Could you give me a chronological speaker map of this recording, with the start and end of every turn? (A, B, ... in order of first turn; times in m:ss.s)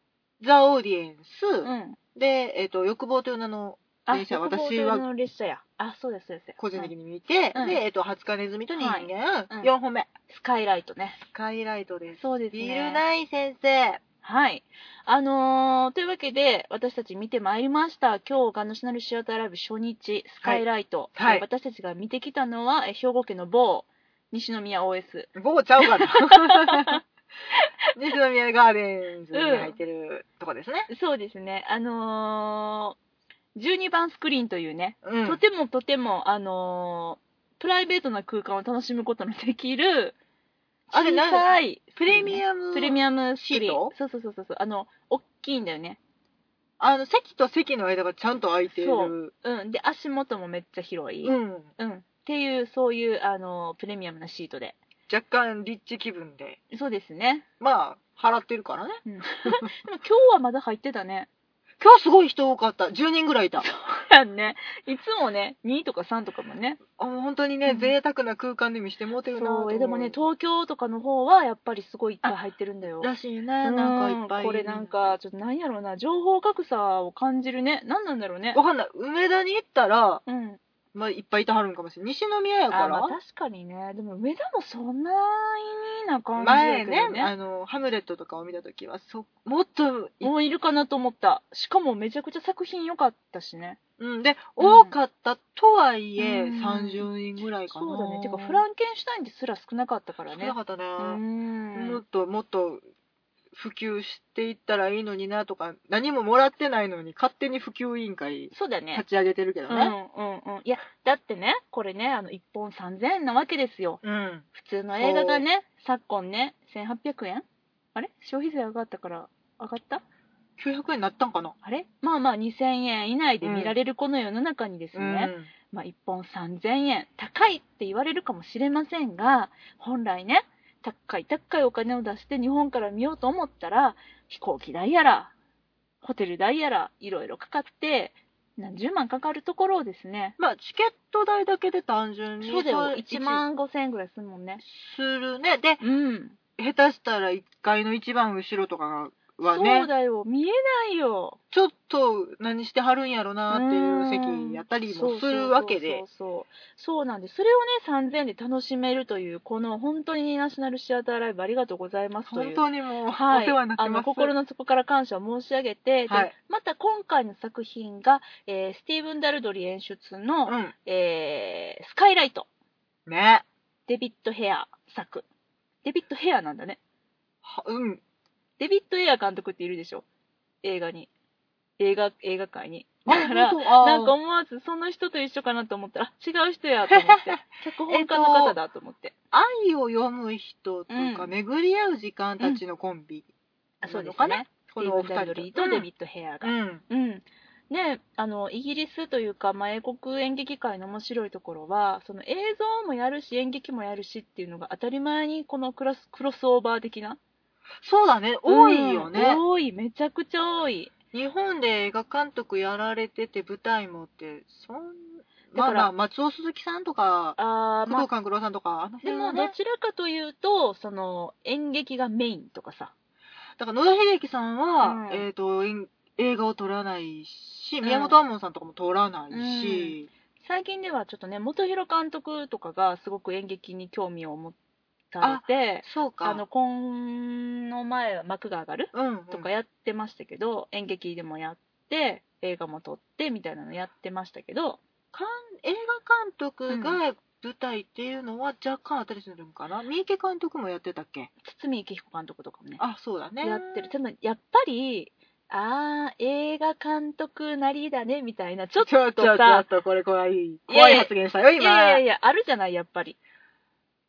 0:00.4-0:05.0 A
0:01.6-0:02.0 B
0:04.0-0:06.9 B
0:06.6-0:10.1 A
0:07.5-0:07.8 B
0:08.7-0:09.7 B
0:10.3-0:11.2 B
0:11.3-0:14.0 A
0:12.2-0:13.0 B
0:14.2-0:25.3 B
0:21.2-0:21.4 A
0:25.3-0:27.0 A
0:25.8-0:27.0 B
0:27.5-0:27.8 B
0:27.9-0:30.9 A
0:29.3-0:29.8 B
0:30.9-0:33.0 B
0:33.6-0:40.2 B
0:35.0-0:35.4 A
0:40.9-0:46.0 B
0:40.9-0:43.9 A
0:46.8-0:49.3 A
0:48.8-0:54.8 B
0:51.2-0:51.7 A
0:55.1-0:56.6 A
0:56.7-0:57.4 B
0:57.6-0:59.7 A
0:59.0-1:01.3 B
1:01.8-1:03.6 A
1:03.6-1:06.8 B
1:07.0-1:10.2 A
1:07.6-1:07.9 B
1:09.3-1:13.1 B
1:13.0-1:15.2 A
1:13.6-1:18.6 B
1:18.5-1:20.2 A
1:20.2-1:20.6 B
1:20.9-1:23.2 A
1:22.7-1:27.3 B
1:26.4-1:30.3 A
1:30.2-1:33.8 B
1:34.0-1:38.6 A
1:34.6-1:34.9 B
1:36.2-1:37.1 B
1:37.7-1:42.0 B
1:40.3-1:41.2 A
1:41.7-1:42.8 A
1:43.5-1:49.9 A
1:48.5-1:49.0 B
1:49.7-1:54.0 B
1:54.0-1:54.4 A
1:54.5-2:00.0 B
1:55.0-1:55.4 A
2:00.6-2:01.5 A
2:01.6-2:15.3 B
2:03.4-2:03.7 A
2:04.9-2:05.5 A
2:16.0-2:20.4 B
2:20.4-2:23.4 A
2:22.4-2:24.6 B
2:24.6-2:25.8 A
2:25.8-2:26.4 B
2:26.6-2:29.9 A
2:29.4-2:31.4 B
2:31.5-2:36.0 A
2:33.5-2:52.5 B
2:42.3-2:44.3 A
2:46.1-2:46.3 A
2:50.4-2:50.7 A
2:53.0-2:53.4 A
2:53.9-2:55.2 B
2:55.8-2:56.8 B
2:57.4-2:58.0 A
2:58.6-3:00.0 B
3:00.6-3:01.1 B
3:01.8-3:09.1 B
3:03.1-3:04.1 A
3:06.9-3:08.6 A
3:09.3-3:13.3 A
3:10.9-3:11.3 B
3:13.8-3:27.2 B
3:13.8-3:15.9 A
3:16.4-3:16.8 A
3:27.8-3:29.4 A
3:28.5-3:30.9 B
3:31.1-3:39.5 A
3:35.5-3:35.9 B
3:37.4-3:38.1 B
3:39.0-3:42.9 B
3:43.6-3:50.1 A
3:44.8-3:45.2 B
3:47.8-3:48.2 B
3:49.3-3:54.6 B
3:55.1-4:04.8 B
3:55.2-3:56.4 A
3:58.9-3:59.5 A
4:05.1-4:11.3 A
4:06.7-4:07.0 B
4:11.4-4:12.8 B
4:12.8-4:13.9 A
4:13.4-4:19.6 B
4:18.8-4:22.0 A
4:20.7-4:23.2 B